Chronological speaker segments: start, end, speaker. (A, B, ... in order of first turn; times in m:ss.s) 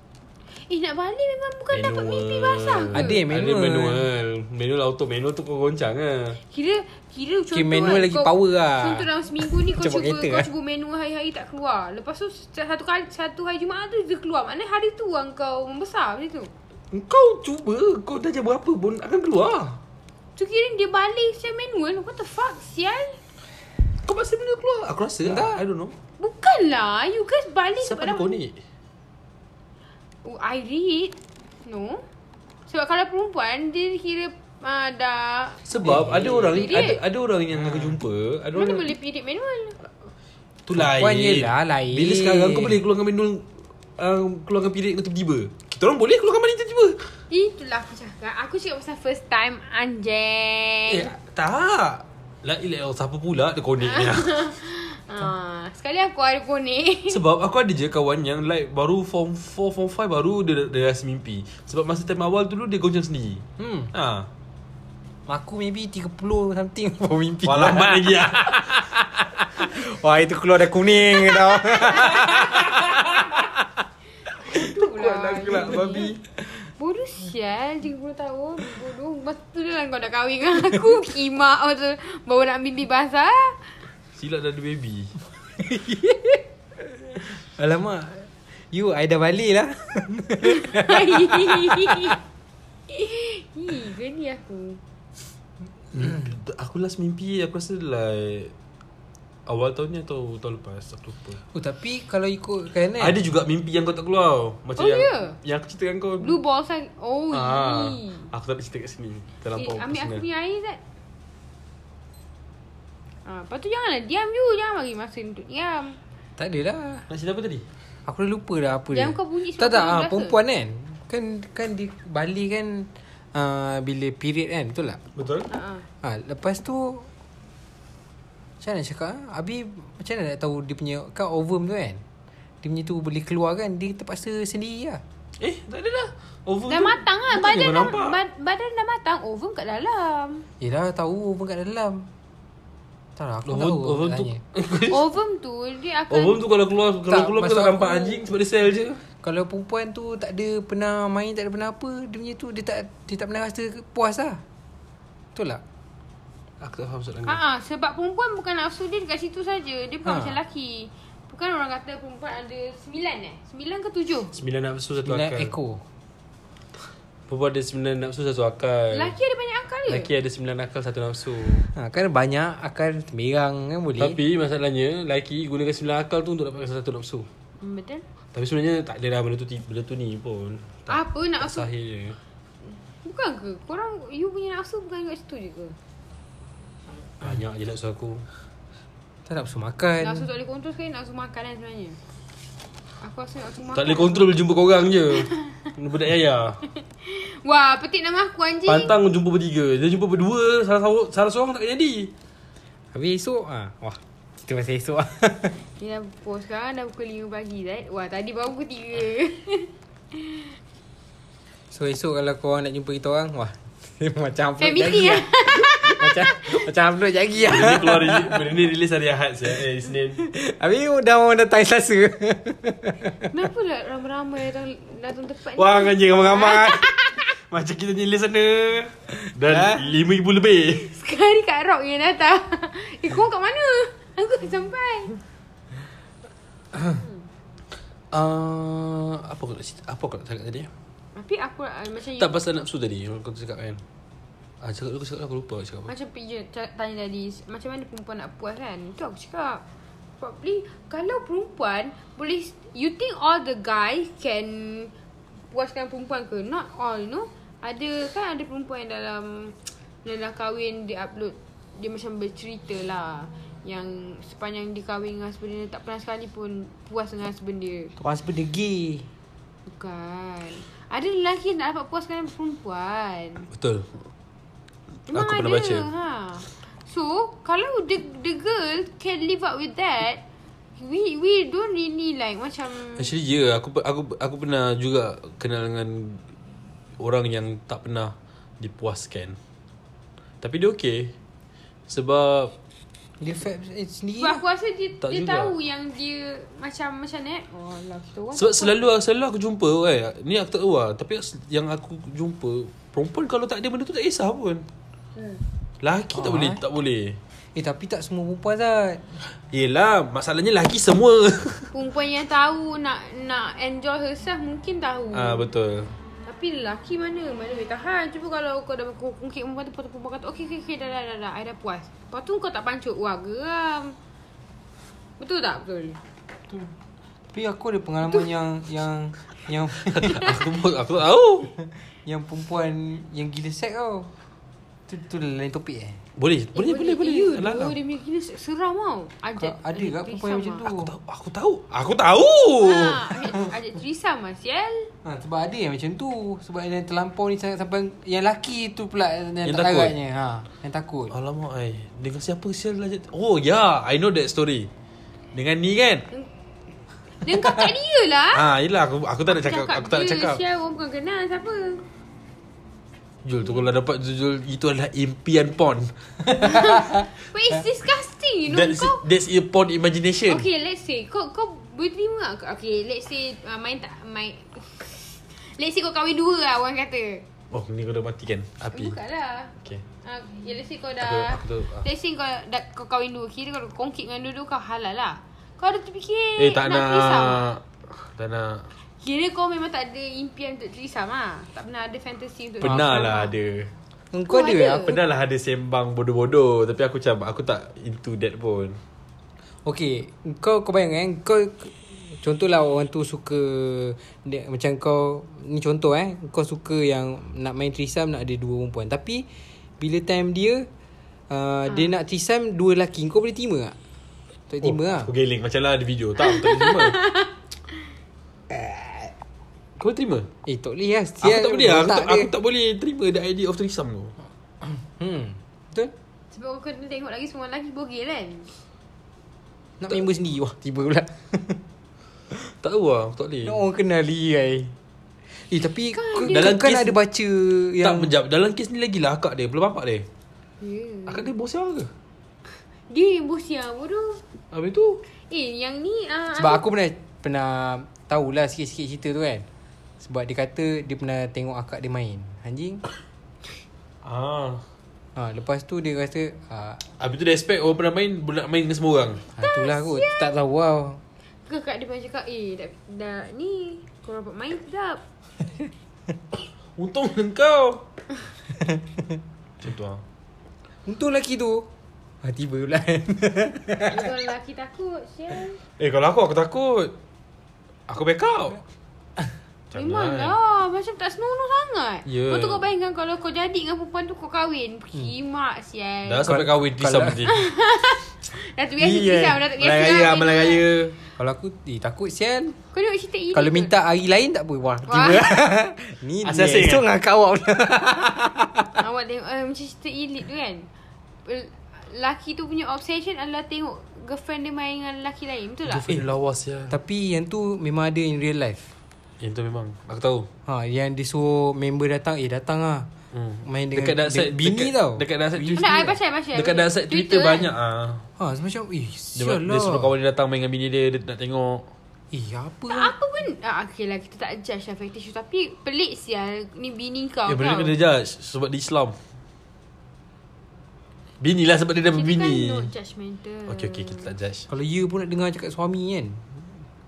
0:00.7-0:03.2 A
0:01.7-0:06.4 B
0:02.9-0:04.0 C
0:06.5-0:16.5 A
0:07.5-0:10.5 C
0:16.9-0:19.8 B
0:20.4-0:23.2 A
0:24.0-0:25.9 B
0:25.2-0:25.6 C
0:26.2-0:28.4 A
0:27.8-0:28.6 B
0:30.2-0:32.0 A
0:32.7-0:35.6 A
0:35.6-0:38.9 B
0:35.8-0:36.4 C
0:36.2-0:37.0 A
0:37.5-0:38.0 C
0:38.5-0:39.8 A
0:40.6-0:43.5 B
0:40.7-0:42.8 C
0:44.0-0:47.0 B
0:47.3-0:51.1 A
0:50.9-0:54.3 B
0:53.8-0:57.2 A
0:57.1-1:04.3 B
1:03.6-1:03.9 C
1:05.3-1:13.6 C
1:07.4-1:08.7 B
1:11.7-1:13.4 A
1:14.3-1:16.1 A
1:14.5-1:16.2 B
1:16.8-1:23.6 A
1:24.1-1:25.1 B
1:25.6-1:32.2 C
1:30.4-1:32.2 A
1:32.9-1:34.8 A
1:35.9-1:38.5 B
1:39.5-1:41.4 B
1:41.5-1:43.2 C
1:43.0-1:46.4 B
1:44.8-1:45.4 A
1:46.2-1:48.3 A
1:47.3-1:50.2 B
1:49.6-1:50.8 A
1:53.2-1:56.0 A
1:56.4-1:57.1 C
1:57.1-1:57.6 B
1:58.1-2:05.0 C
1:58.9-2:00.4 A
2:05.2-2:05.5 B
2:05.5-2:05.8 A
2:06.0-2:07.1 C
2:08.6-2:12.0 C
2:12.6-2:15.0 C
2:15.4-2:18.2 B
2:16.7-2:20.4 A
2:20.6-2:22.1 C
2:23.2-2:24.4 C
2:23.4-2:25.0 B
2:24.9-2:26.4 A
2:26.1-2:29.0 B
2:27.1-2:28.2 C
2:29.2-2:34.4 C
2:35.4-2:35.6 C
2:36.6-2:37.4 B
2:37.2-2:44.3 A
2:40.0-2:40.4 C
2:44.3-2:45.5 B
2:45.0-2:45.8 C
2:47.3-2:49.1 B
2:48.9-2:50.1 A
2:49.9-2:51.7 B
2:51.7-2:54.2 C
2:54.0-2:57.3 B
2:57.6-2:58.0 A
2:58.3-3:02.2 B
3:00.9-3:01.7 A
3:02.7-3:05.8 A
3:07.2-3:08.2 B
3:09.3-3:10.2 C
3:10.0-3:12.0 A
3:13.0-3:14.3 A
3:13.7-3:16.6 B
3:15.2-3:15.7 A
3:17.0-3:18.9 A
3:18.6-3:22.1 B
3:22.9-3:25.6 C
3:25.8-3:30.5 A
3:31.7-3:38.5 C
3:34.6-3:36.5 A
3:37.4-3:40.2 B
3:40.2-3:43.2 C
3:43.3-3:47.3 A
3:45.6-3:50.9 B
3:49.4-3:49.8 C
3:50.7-3:55.2 A
3:57.0-3:57.2 A
3:58.1-4:00.7 B
4:01.2-4:02.4 A
4:02.2-4:03.8 B
4:04.6-4:05.9 B
4:05.9-4:09.6 A
4:10.2-4:14.9 A
4:15.5-4:27.9 A
4:28.0-4:29.1 C
4:29.7-4:33.5 A
4:33.5-4:34.0 B
4:35.1-4:40.2 A
4:35.1-4:35.9 B
4:40.8-4:43.1 A
4:43.0-4:46.2 B
4:47.0-4:49.4 B
4:50.4-4:51.1 B
4:51.9-4:52.5 B
4:53.2-4:54.4 C
4:54.2-4:58.7 A
4:55.0-4:55.5 B
4:58.3-5:04.6 B
5:05.2-5:05.4 A
5:05.8-5:07.2 B
5:06.1-5:06.6 C
5:07.5-5:09.2 C
5:09.2-5:11.7 B
5:11.7-5:15.5 A
5:15.1-5:15.9 B
5:16.2-5:24.0 A
5:25.2-5:26.0 A
5:27.3-5:30.4 C
5:29.8-5:31.5 B
5:31.6-5:34.1 C
5:34.9-5:36.0 C
5:36.2-5:37.7 B
5:36.5-5:40.6 A
5:39.4-5:40.9 C
5:40.6-5:43.1 B
5:42.6-5:44.9 A
5:45.0-5:51.1 C
5:49.4-5:49.9 B
5:51.1-5:54.7 B
5:55.3-5:56.1 B
5:57.2-5:58.4 A
5:58.3-6:00.4 B
5:59.3-6:01.8 A
6:03.2-6:06.0 B
6:06.4-6:09.0 A
6:08.5-6:10.4 B
6:10.3-6:17.2 A
6:17.5-6:19.0 B
6:18.7-6:27.5 A
6:21.0-6:21.9 B
6:26.4-6:28.7 B
6:29.0-6:33.3 A
6:32.6-6:33.7 B
6:34.1-6:35.0 C
6:34.3-6:35.0 A
6:34.8-6:38.8 B
6:39.6-6:49.3 C
6:49.8-6:50.7 C
6:51.3-6:53.8 C
6:54.5-6:55.1 C
6:54.6-6:57.0 B
6:56.2-6:57.3 A
6:59.8-7:00.3 B
7:00.4-7:02.3 C
7:01.2-7:04.1 B
7:04.6-7:05.9 C
7:06.3-7:08.5 A
7:09.8-7:11.6 C
7:12.6-7:13.6 B
7:13.4-7:14.7 C
7:15.3-7:18.1 C
7:15.9-7:16.6 A
7:16.3-7:17.0 B
7:17.8-7:20.1 B
7:20.6-7:21.2 A
7:21.1-7:21.9 B
7:22.9-7:24.2 A
7:24.5-7:25.0 B
7:25.3-7:26.6 A
7:26.4-7:29.4 C
7:30.0-7:32.8 C
7:34.0-7:34.6 B
7:35.2-7:36.8 C
7:37.0-7:39.2 B
7:39.3-7:41.0 C
7:39.4-7:40.3 A
7:41.4-7:45.0 A
7:46.8-7:47.8 B
7:48.6-7:49.0 C
7:49.6-7:50.0 B
7:50.9-7:51.7 C
7:52.2-7:54.1 C
7:53.9-7:55.6 A
7:55.8-7:56.9 B
7:57.9-7:58.6 B
7:59.7-8:00.4 B
7:59.7-8:06.4 A
8:02.1-8:02.6 B
8:06.1-8:07.4 B
8:06.2-8:07.2 C
8:07.2-8:10.6 A
8:08.8-8:11.0 B
8:11.2-8:12.6 C
8:12.7-8:13.7 A
8:13.3-8:18.7 C
8:14.9-8:15.3 A
8:16.2-8:16.8 B
8:18.7-8:20.7 A
8:21.2-8:25.9 A
8:25.7-8:26.8 B
8:26.7-8:28.7 C
8:29.2-8:30.3 B
8:30.4-8:32.9 C
8:33.1-8:38.1 B
8:33.4-8:35.9 C
8:35.5-8:37.5 A
8:38.2-8:39.9 C
8:39.2-8:41.7 B
8:42.1-8:42.9 C
8:42.7-8:47.7 A
8:47.3-8:49.0 B
8:51.2-8:52.7 B
8:51.9-8:54.1 A
8:53.5-8:54.5 B
8:54.5-8:56.3 C